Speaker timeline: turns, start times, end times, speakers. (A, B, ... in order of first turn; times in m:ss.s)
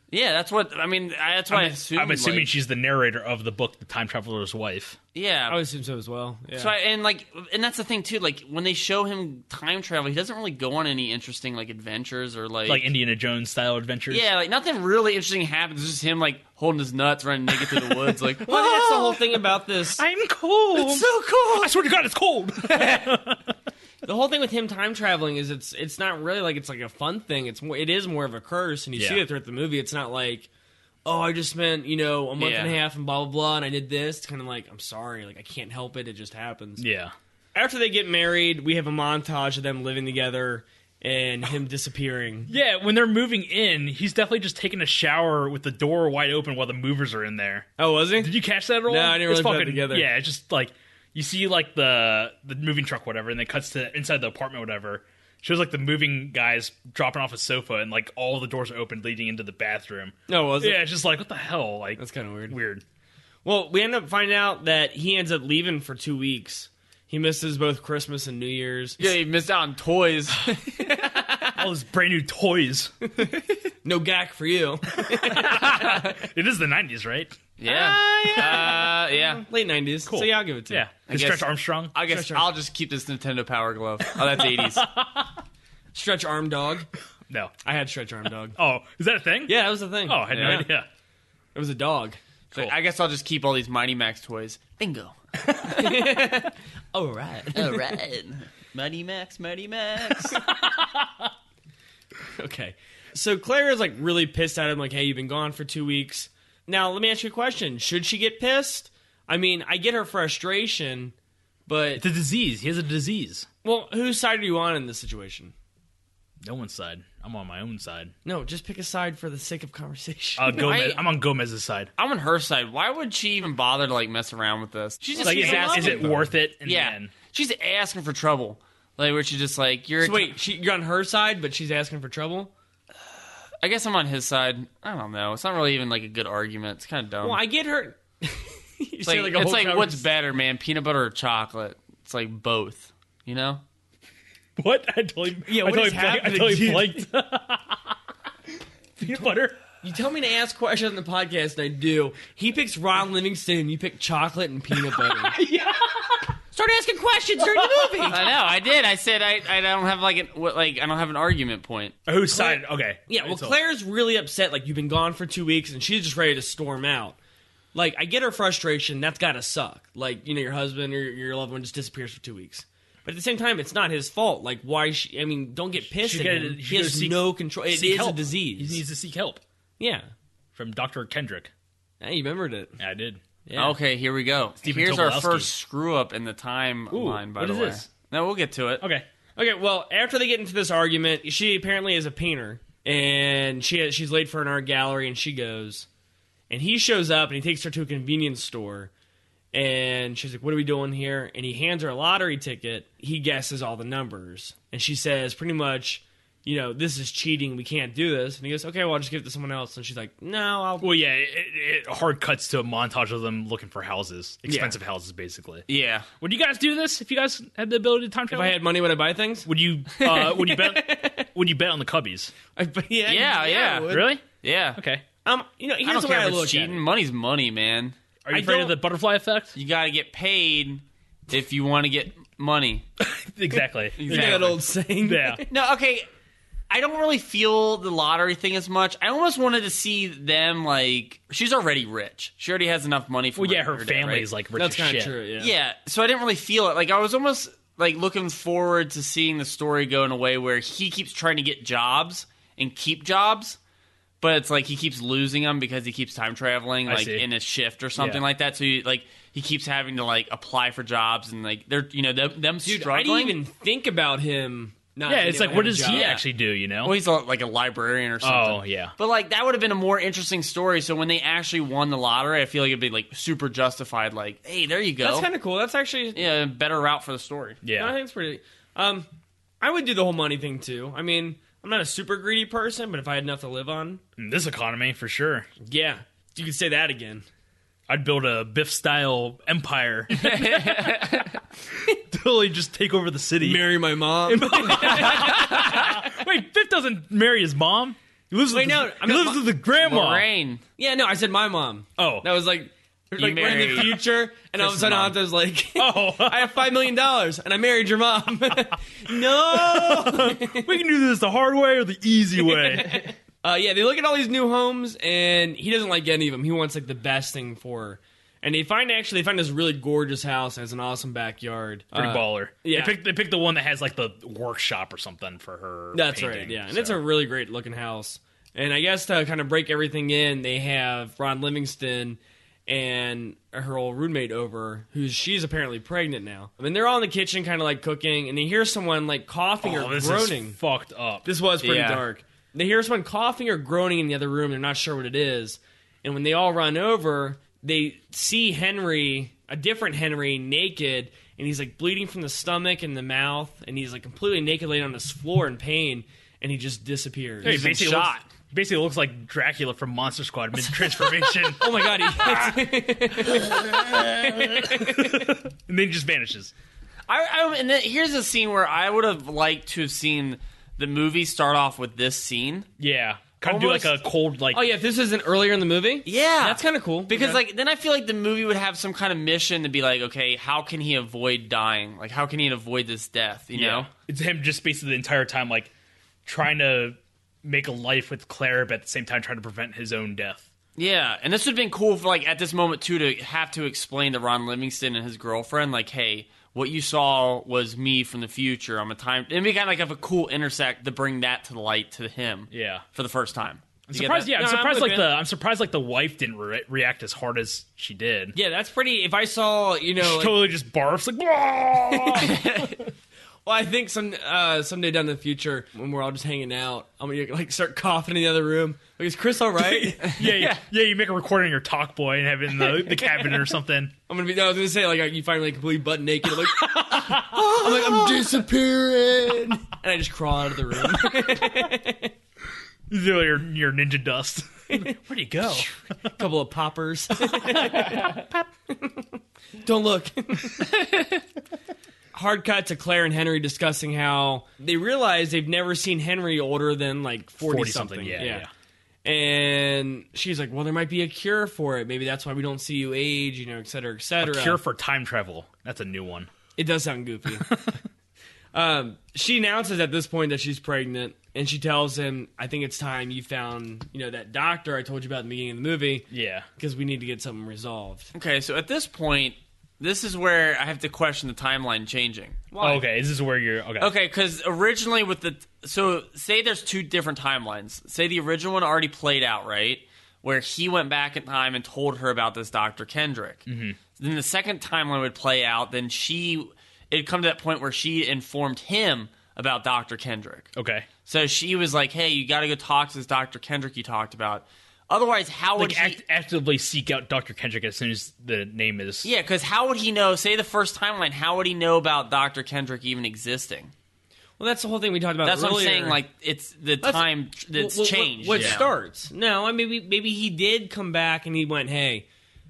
0:00.1-0:02.5 A
0:01.5-0:05.0 B
0:05.1-0:05.6 A
0:05.5-0:06.7 C
0:06.6-0:12.9 A
0:12.7-0:14.3 B
0:14.1-0:18.6 A
0:17.5-0:19.4 B
0:18.4-0:20.0 C
0:20.0-0:23.5 B
0:20.8-0:21.8 A
0:24.0-0:30.5 C
0:29.0-0:29.2 B
0:31.0-0:36.8 C
0:32.4-0:32.8 A
0:36.8-0:37.1 B
0:37.6-0:42.5 C
0:42.5-0:47.7 B
0:47.8-0:48.3 C
0:48.2-1:02.8 B
0:48.9-0:50.1 C
1:00.3-1:00.8 C
1:02.0-1:02.6 C
1:03.4-1:09.0 C
1:09.0-1:11.5 A
1:11.6-1:12.9 B
1:13.8-1:16.1 C
1:14.9-1:17.4 B
1:15.5-1:16.1 A
1:17.6-1:19.4 A
1:17.7-1:20.9 C
1:20.1-1:22.0 B
1:21.1-1:24.8 A
1:22.1-1:22.5 C
1:24.1-1:25.4 B
1:25.9-1:26.9 C
1:27.3-1:27.5 B
1:27.6-1:28.6 C
1:28.6-1:30.9 B
1:29.5-1:30.7 C
1:30.4-1:30.6 A
1:31.6-1:32.2 C
1:32.5-1:36.0 A
1:35.7-1:38.0 C
1:37.6-1:40.4 A
1:40.2-1:41.3 B
1:42.4-1:51.2 C
1:51.7-1:52.0 C
1:52.0-1:53.5 B
1:53.6-1:55.5 C
1:56.4-1:58.1 B
1:58.2-2:00.7 C
2:00.4-2:01.9 B
2:00.5-2:01.0 A
2:02.0-2:10.3 A
2:05.1-2:06.3 C
2:05.2-2:07.1 B
2:10.0-2:12.5 C
2:13.6-2:17.4 A
2:17.2-2:20.0 C
2:19.0-2:23.6 A
2:24.6-2:28.0 B
2:25.5-2:27.0 C
2:29.0-2:29.6 B
2:29.8-2:35.4 C
2:34.8-2:36.4 B
2:36.5-2:38.3 C
2:37.4-2:38.1 B
2:38.1-2:42.0 A
2:42.1-2:43.6 B
2:42.3-2:47.2 C
2:47.7-2:58.8 C
2:55.9-2:59.4 B
2:59.8-3:00.1 C
3:00.6-3:01.5 B
3:02.0-3:02.8 C
3:02.8-3:03.2 B
3:03.5-3:03.8 C
3:03.6-3:08.8 A
3:04.6-3:05.5 B
3:06.9-3:07.9 B
3:08.8-3:09.1 B
3:09.4-3:15.9 C
3:16.5-3:18.9 C
3:19.5-3:30.9 C
3:30.8-3:35.6 B
3:34.5-3:34.7 C
3:35.7-3:36.1 A
3:36.2-3:38.6 B
3:38.3-3:41.3 C
3:39.5-3:42.3 B
3:42.5-3:44.2 C
3:43.1-3:44.8 A
3:43.9-3:44.2 B
3:44.8-3:45.0 B
3:45.2-3:46.8 C
3:45.8-3:48.0 A
3:48.2-3:49.6 B
3:48.3-3:48.8 C
3:49.6-3:52.8 A
3:53.0-3:55.4 B
3:54.0-3:54.6 A
3:54.1-3:55.5 C
3:55.5-3:56.1 A
3:56.7-4:04.3 A
4:03.4-4:05.2 B
4:04.6-4:05.5 C
4:05.4-4:13.6 A
4:14.2-4:23.4 A
4:16.9-4:17.2 B
4:18.0-4:18.2 B
4:22.6-4:26.1 C
4:25.1-4:27.0 B
4:25.8-4:26.2 A
4:26.8-4:35.3 A
4:28.2-4:28.9 B
4:35.0-4:36.2 C
4:36.2-4:37.6 A
4:37.6-4:38.0 B
4:37.8-4:39.1 C
4:39.6-4:44.0 C
4:44.2-4:45.5 B
4:45.6-4:47.2 C
4:47.9-4:51.2 B
4:50.1-4:51.4 A
4:51.7-5:00.3 B
4:53.4-4:55.9 C
4:55.2-4:55.9 A
4:58.5-4:59.5 C
4:59.8-5:00.6 A
5:00.8-5:10.7 C
5:02.0-5:02.3 B
5:03.2-5:04.0 A
5:04.6-5:05.2 B
5:05.8-5:06.5 B
5:09.1-5:13.1 B
5:12.4-5:23.0 C
5:21.9-5:27.0 B
5:25.9-5:40.6 C
5:39.6-5:41.2 B
5:41.2-5:57.7 C
5:41.6-5:42.0 A
5:57.4-6:06.5 B
5:57.4-5:58.2 A
6:00.7-6:05.4 C
6:07.1-6:12.7 A
6:12.8-6:14.6 B
6:13.4-6:13.9 A
6:14.5-6:17.4 C
6:16.1-6:23.9 A
6:23.5-6:25.7 B
6:26.3-6:30.5 B
6:30.8-6:44.3 A
6:42.5-6:42.8 B
6:43.9-6:48.4 B
6:44.3-6:45.1 C
6:48.4-6:50.4 C
6:50.0-6:52.7 B
6:51.8-6:52.4 C
6:52.2-6:52.8 A
6:53.5-7:00.2 C
6:59.6-7:03.9 B
7:00.0-7:00.6 A
7:02.7-7:03.4 C
7:04.1-7:12.1 C
7:06.4-7:08.2 B
7:10.9-7:11.3 B
7:12.9-7:16.1 B
7:15.5-7:20.7 C
7:17.3-7:18.1 B
7:20.7-7:21.2 A
7:22.1-7:28.5 C
7:27.4-7:28.5 B
7:29.0-7:34.6 C
7:34.2-7:36.3 B
7:36.6-7:37.5 C
7:37.4-7:37.8 B
7:38.5-7:46.1 C
7:46.1-7:46.5 B
7:46.6-7:48.1 C
7:48.1-7:52.4 A
7:52.5-7:52.9 C
7:52.6-7:53.9 B
7:53.8-8:03.4 A
8:03.5-8:03.8 B
8:04.0-8:10.5 A
8:10.6-8:10.9 B
8:11.1-8:16.0 A
8:15.6-8:19.1 B
8:19.0-8:23.7 A
8:24.4-8:26.0 C
8:25.2-8:28.7 A
8:26.8-8:32.1 C
8:28.4-8:28.6 B